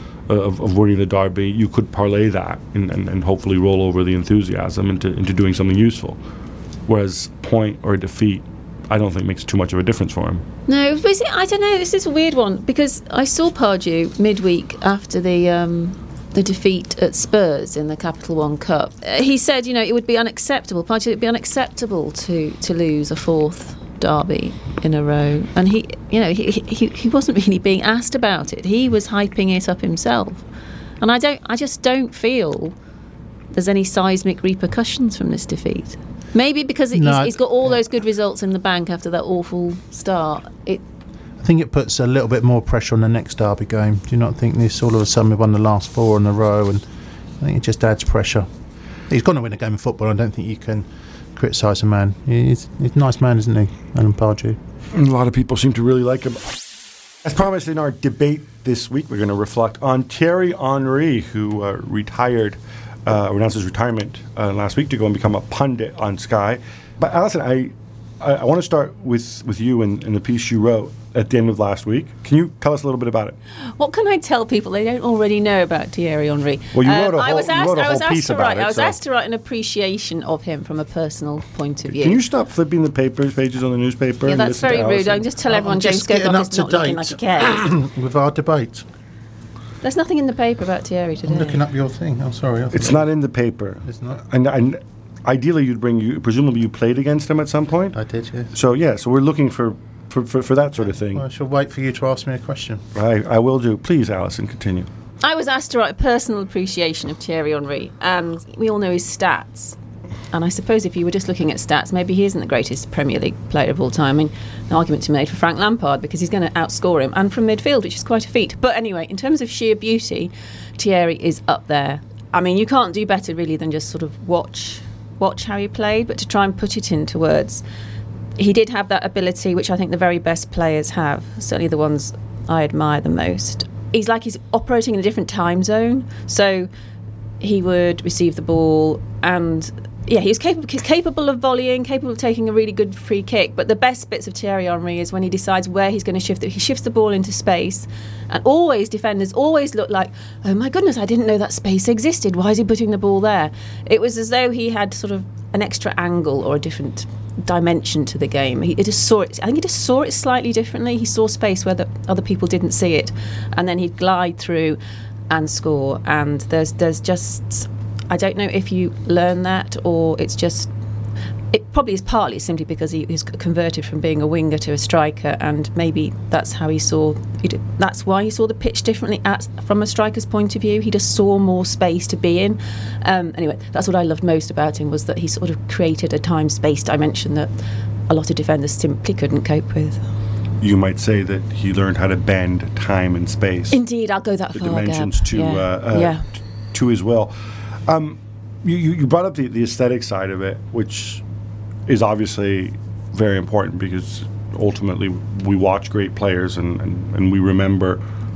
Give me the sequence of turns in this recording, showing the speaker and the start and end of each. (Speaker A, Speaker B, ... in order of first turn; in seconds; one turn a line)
Speaker A: 0.3-6.2
Speaker A: 6.9-10.4
Speaker B: 10.7-30.4
Speaker B: 31.0-32.7
Speaker B: 33.5-40.8
Speaker C: 36.9-37.4
Speaker C: 41.4-46.8
Speaker C: 47.4-48.5
Speaker C: 49.1-54.6
Speaker A: 54.9-56.6
Speaker A: 57.2-73.3
Speaker B: 73.8-82.2
Speaker A: 76.7-79.0
Speaker A: 82.0-85.2
Speaker B: 84.2-87.7
Speaker C: 85.5-88.8
Speaker B: 89.8-91.6
Speaker C: 91.2-93.1
Speaker A: 92.7-98.0
Speaker C: 93.8-94.2
Speaker C: 97.9-98.5
Speaker A: 98.5-101.2
Speaker C: 101.1-102.8
Speaker A: 102.9-104.9
Speaker B: 105.2-109.8
Speaker B: 110.3-127.6
Speaker B: 128.4-136.7
Speaker B: 137.4-164.8
Speaker B: 165.3-170.7
Speaker B: 171.5-187.5
Speaker B: 188.1-190.0
Speaker A: 190.6-193.8
Speaker B: 193.7-196.2
Speaker A: 194.5-201.2
Speaker A: 201.9-208.0